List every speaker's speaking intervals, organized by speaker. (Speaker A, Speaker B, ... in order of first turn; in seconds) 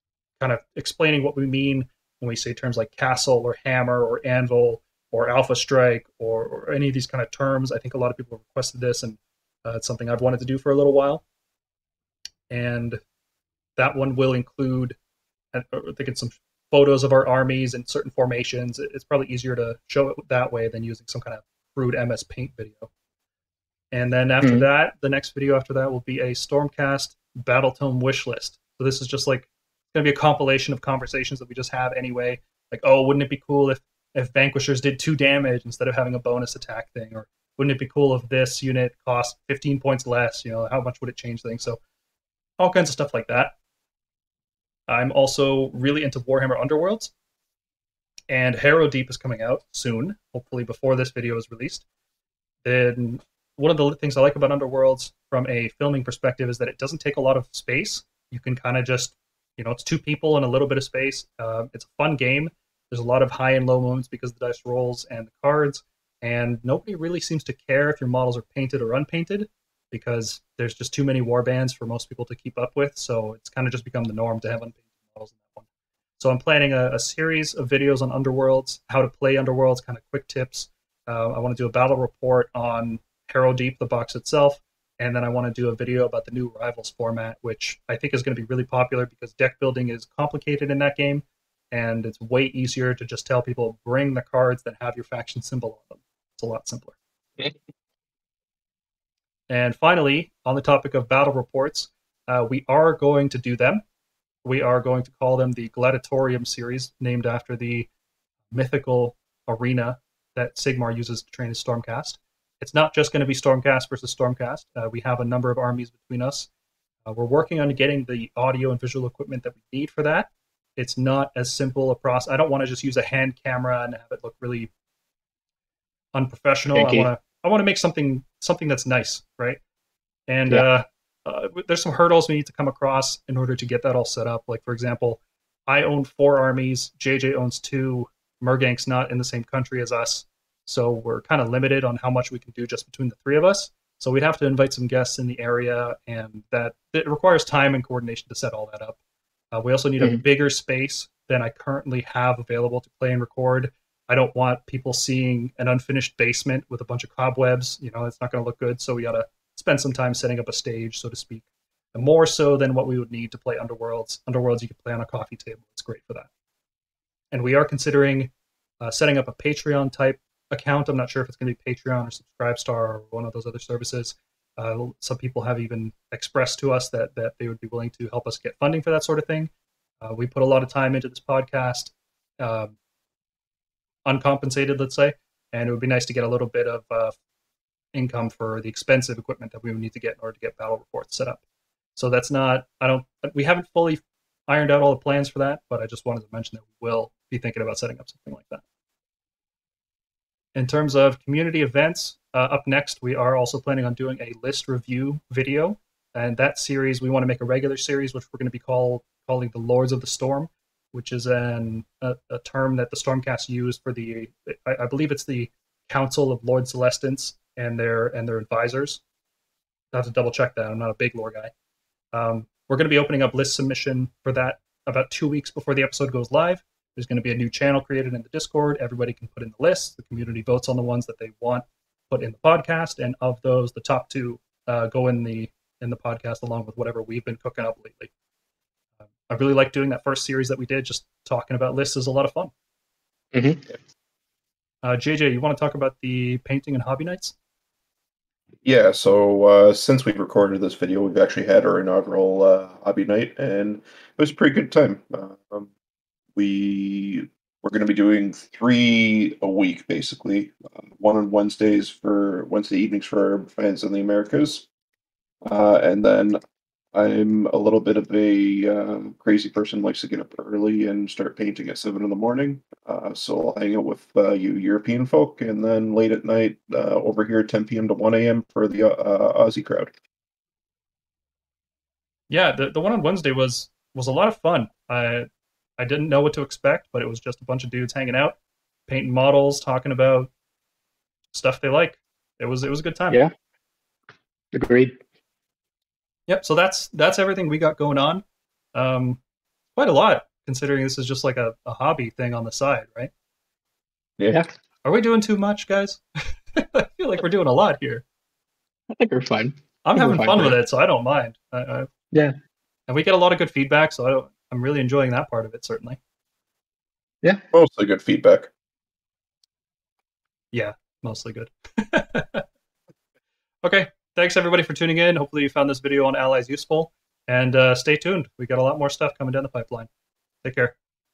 Speaker A: 0.4-11.2, 12.5-13.0, 13.8-15.0, 15.5-22.9, 23.9-41.8, 42.6-43.5, 44.9-47.1, 48.3-51.9, 52.6-75.7, 76.2-97.0, 99.5-103.8, 104.4-107.9, 108.5-116.5, 117.1-124.7, 126.1-129.6, 130.3-149.0, 149.5-166.3, 167.3-182.8, 184.1-187.2, 187.9-191.4, 192.0-198.6, 200.6-219.0, 219.9-221.5, 222.1-238.1, 239.3-242.5, 244.8-247.3, 282.3-285.3, 285.8-288.4, 288.9-290.3, 291.3-293.2, 296.3-299.2, 299.8-303.1, 304.8-308.0, 309.8-311.9, 312.9-316.0, 320.5-322.4, 323.6-329.9, 330.4-330.7
Speaker B: 24.4-24.7, 126.7-127.1, 243.3-243.7, 294.5-295.0, 308.9-310.6
Speaker C: 248.7-255.7, 256.4-264.7, 265.4-266.4, 266.9-279.9, 304.2-304.4, 317.5-318.5